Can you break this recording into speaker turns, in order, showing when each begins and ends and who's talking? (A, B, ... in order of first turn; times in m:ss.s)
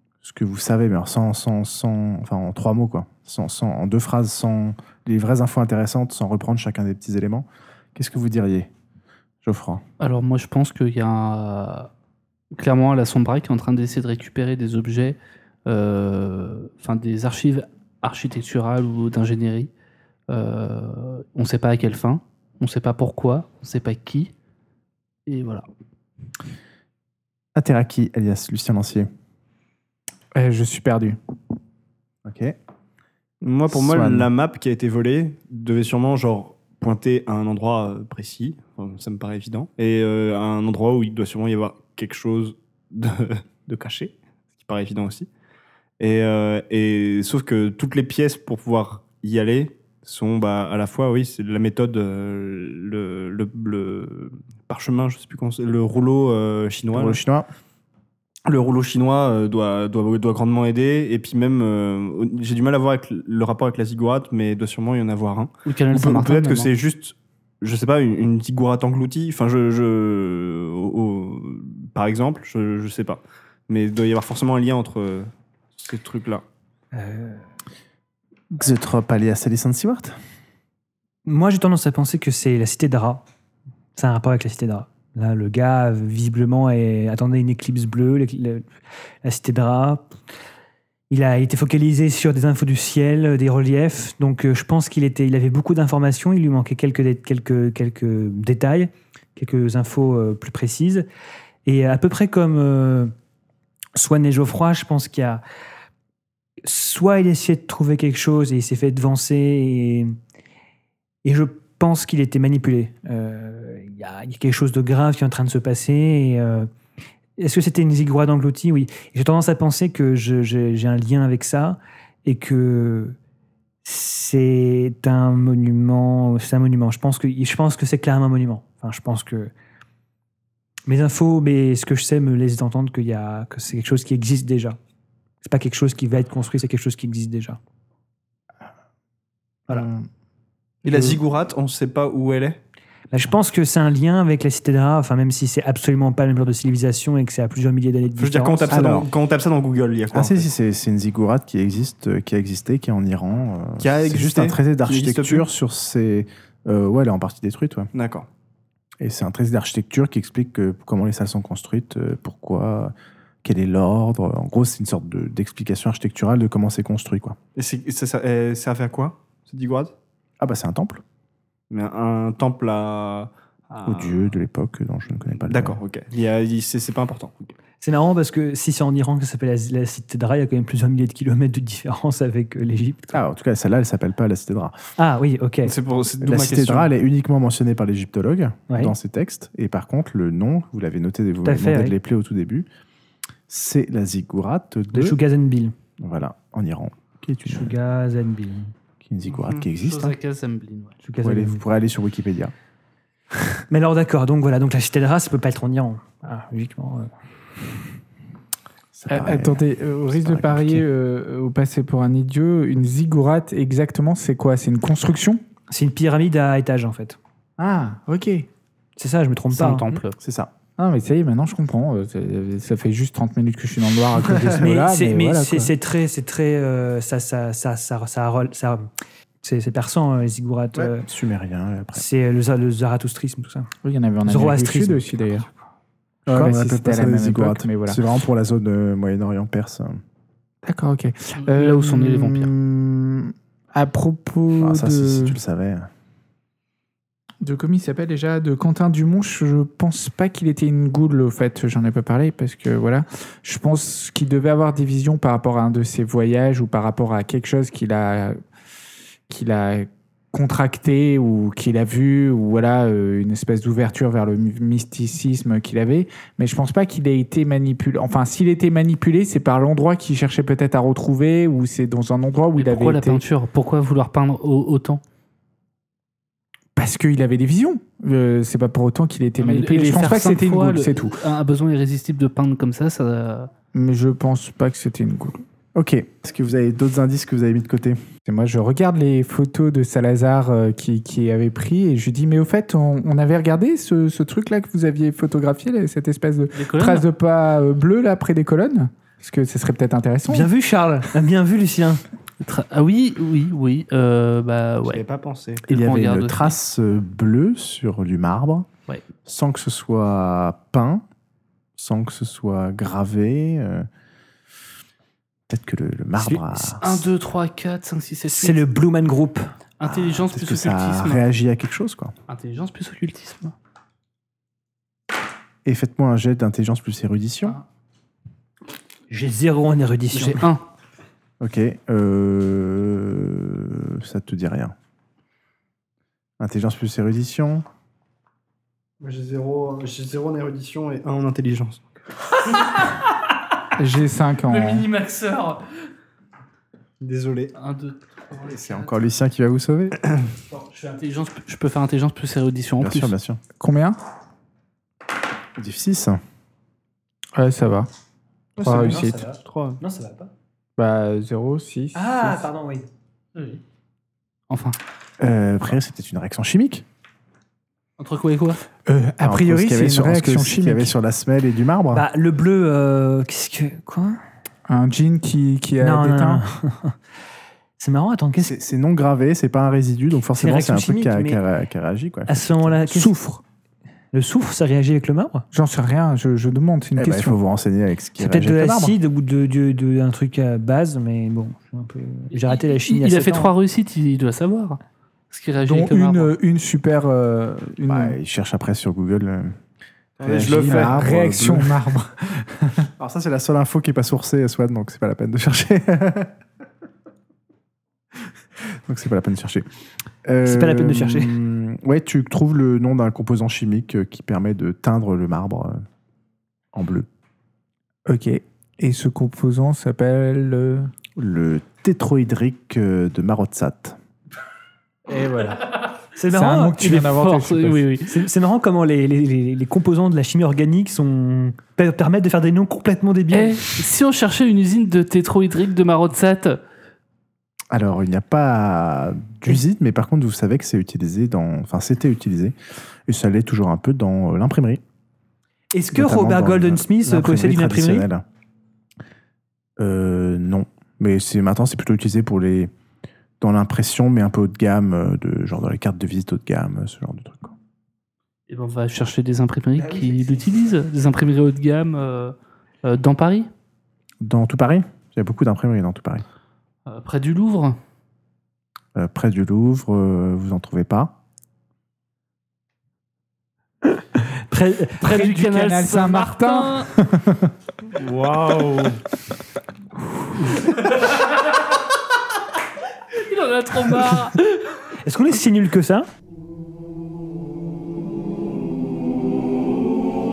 0:00.2-0:08.7 A
0:09.4-0:09.8 A
0:10.0-0:11.9 B
0:12.5-0:19.7 B
0:20.3-0:24.3 B
0:25.3-0:25.6 B
0:27.5-0:29.1 A
0:30.3-0:31.2 C
0:32.2-0:32.6 A
0:33.4-0:45.3 D
0:33.7-0:34.3 A
0:46.0-0:57.2 D
0:56.9-0:57.5 A
0:58.4-1:16.4 D
1:05.6-1:06.7 B
1:16.9-1:17.4 E
1:18.5-1:20.2 A
1:21.2-1:23.2 E
1:23.9-1:28.7 E
1:29.2-1:30.1 E
1:31.1-1:41.0 E
1:41.6-1:43.1 E
1:43.9-1:45.4 E
1:46.6-1:50.1 E
1:51.2-1:56.7 E
1:57.4-2:03.2 E
2:03.8-2:09.5 E
2:10.9-2:14.8 E
2:15.4-2:17.6 E
2:19.7-2:20.1 A
2:20.8-2:22.6 D
2:20.9-2:21.2 A
2:23.1-2:29.0 E
2:28.2-2:30.5 D
2:28.7-2:29.1 A
2:30.1-2:37.9 A
2:33.8-2:35.5 D
2:37.9-2:38.3 D
2:39.0-2:47.4 A
2:47.6-2:49.9 D
2:50.4-2:51.0 A
2:51.7-2:54.2 D
2:53.8-2:55.8 A
2:55.4-2:57.5 D
2:57.8-3:03.2 E
3:03.1-3:04.8 A
3:05.0-3:05.7 E
3:05.6-3:06.9 D
3:06.2-3:12.7 A
3:11.4-3:12.0 E
3:13.5-3:15.2 A
3:14.9-3:15.7 E
3:16.0-3:17.7 A
3:17.4-3:18.7 E
3:19.0-3:20.2 A
3:19.6-3:20.9 B
3:21.0-3:21.6 E
3:21.2-3:22.5 A
3:23.7-3:27.1 E
3:28.9-3:30.8 A
3:29.1-3:35.4 C
3:35.7-3:37.2 E
3:37.6-3:38.5 C
3:39.0-3:39.9 E
3:39.5-3:40.2 B
3:40.2-3:40.5 A
3:40.8-3:45.7 C
3:44.4-3:48.9 E
3:49.4-3:51.1 E
3:50.7-3:52.0 A
3:51.9-3:53.7 E
3:53.8-3:55.5 C
3:54.2-3:55.1 E
3:56.3-4:00.0 A
3:56.3-3:58.0 C
3:56.3-3:56.6 D
4:00.6-4:05.4 C
4:01.4-4:02.5 B
4:04.6-4:05.9 A
4:07.4-4:18.4 C
4:19.3-4:33.2 C
4:32.6-4:35.0 B
4:36.8-4:41.2 C
4:39.4-4:43.5 B
4:43.7-4:45.4 C
4:45.7-4:48.0 A
4:48.3-5:00.5 C
4:56.5-4:57.1 B
5:00.3-5:02.0 E
5:02.4-5:05.0 B
5:04.8-5:05.6 D
5:05.7-5:06.6 B
5:05.7-5:08.7 A
5:09.2-5:11.0 A
5:11.8-5:13.9 A
5:15.5-5:17.0 A
5:16.2-5:16.4 E
5:16.8-5:18.7 B
5:18.3-5:19.5 E
5:19.8-5:21.2 B
5:19.8-5:22.1 A
5:22.3-5:23.5 B
5:25.6-5:27.6 A
5:29.1-5:30.4 E
5:30.1-5:30.6 B
5:31.4-5:34.7 A
5:36.4-5:37.6 A
5:39.0-5:41.9 D
5:43.8-5:44.9 C
5:44.4-5:45.6 B
5:47.0-5:47.5 D
5:47.6-5:49.0 B
5:48.4-5:50.0 A
5:50.5-5:53.1 B
5:52.8-5:53.4 A
5:53.6-5:54.0 C
5:55.6-5:56.2 A
5:57.3-5:57.9 C
5:58.6-5:59.8 D
5:58.6-5:59.2 C
5:58.6-6:00.3 E
6:00.8-6:02.5 C
6:01.9-6:02.9 E
6:03.3-6:03.6 B
6:04.5-6:04.8 B
6:05.2-6:06.8 A
6:08.0-6:08.6 B
6:08.8-6:10.9 C
6:09.2-6:12.1 A
6:11.9-6:14.2 E
6:14.7-6:16.4 C
6:15.8-6:17.0 E
6:17.8-6:18.6 E
6:18.4-6:23.4 A
6:20.4-6:21.4 E
6:22.3-6:23.1 E
6:24.1-6:25.4 E
6:25.5-6:27.4 C
6:27.0-6:29.0 A
6:28.2-6:33.5 E
6:32.3-6:34.8 B
6:35.3-6:36.4 B
6:35.6-6:38.2 C
6:37.9-6:39.6 A
6:40.2-6:41.2 D
6:40.2-6:41.7 A
6:40.2-6:42.9 C
6:43.0-6:46.3 A
6:48.8-6:49.6 A
6:50.2-6:55.8 A
6:50.4-6:51.4 E
6:56.7-6:57.1 A
6:58.1-7:00.9 C
7:01.2-7:04.0 A
7:05.1-7:05.8 C
7:06.1-7:07.1 E
7:06.3-7:07.8 C
7:06.8-7:08.2 B
7:08.1-7:13.8 E
7:13.3-7:16.6 B
7:17.7-7:22.5 A
7:23.1-7:24.8 A
7:25.7-7:28.1 E
7:25.9-7:28.2 A
7:29.8-7:32.7 A
7:33.4-7:37.6 A
7:38.5-7:43.5 B
7:44.2-7:46.2 A
7:46.8-7:47.8 B
7:48.9-7:51.2 A
7:53.9-7:55.2 E
7:55.0-7:56.9 B
7:55.0-7:57.5 C
7:58.0-7:58.9 B
8:01.0-8:01.5 B
8:03.1-8:04.4 B
8:04.0-8:06.1 E